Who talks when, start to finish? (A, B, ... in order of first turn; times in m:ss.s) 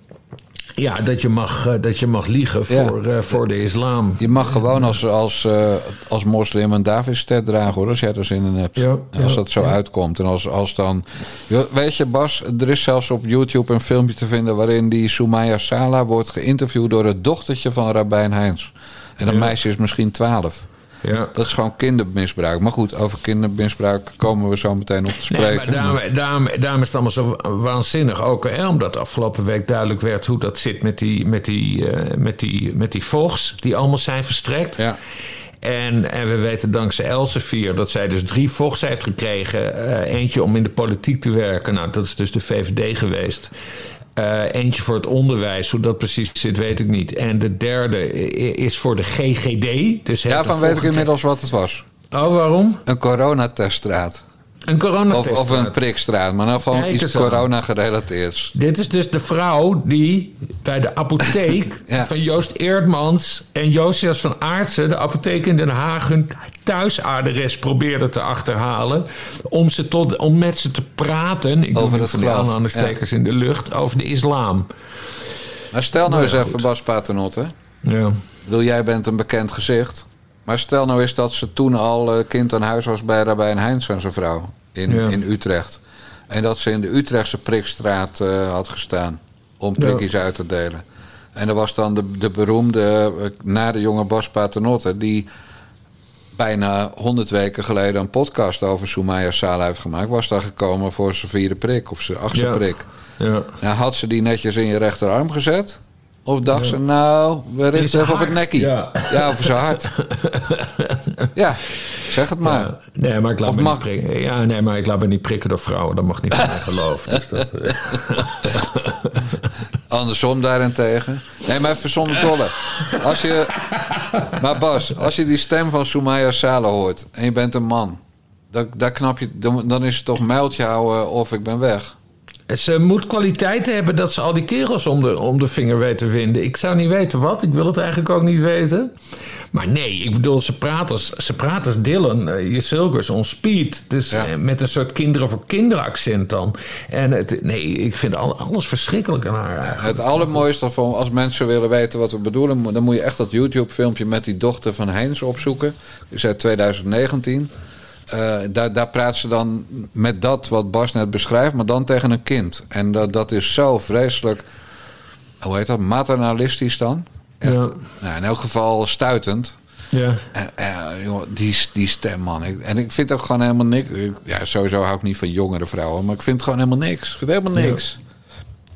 0:00.8-0:04.9 A
0:04.2-0:20.6 B
0:08.8-0:09.7 A
0:19.2-0:19.5 A
0:21.0-0:21.3 A
0:21.3-0:25.9 B
0:25.3-0:34.8 A
0:35.6-0:43.5 A
0:44.2-0:51.1 A
0:50.3-0:51.9 B
0:52.1-0:52.8 A
0:52.9-0:54.2 B
0:54.7-0:55.8 A
0:55.1-0:58.5 B
0:56.7-0:57.5 A
0:58.5-1:14.7 A
1:11.8-1:12.9 B
1:15.7-1:17.5 B
1:16.1-1:16.6 A
1:17.8-1:18.2 A
1:18.4-1:30.8 B
1:24.9-1:25.2 A
1:29.8-1:30.0 A
1:31.3-1:35.3 B
1:36.3-1:42.9 B
1:42.3-1:42.6 A
1:43.2-1:43.5 A
1:43.6-1:49.9 B
1:47.7-1:51.3 A
1:51.3-1:52.7 B
1:52.4-1:59.2 A
1:53.4-1:53.8 B
1:59.9-2:03.6 B
2:04.3-2:08.0 B
2:08.5-2:11.9 B
2:12.5-2:18.9 A
2:19.5-2:30.4 A
2:29.7-2:37.5 B
2:38.1-2:44.4 B
2:45.4-2:49.6 B
2:47.4-2:47.8 A
2:49.9-2:50.2 A
2:50.3-2:58.0 B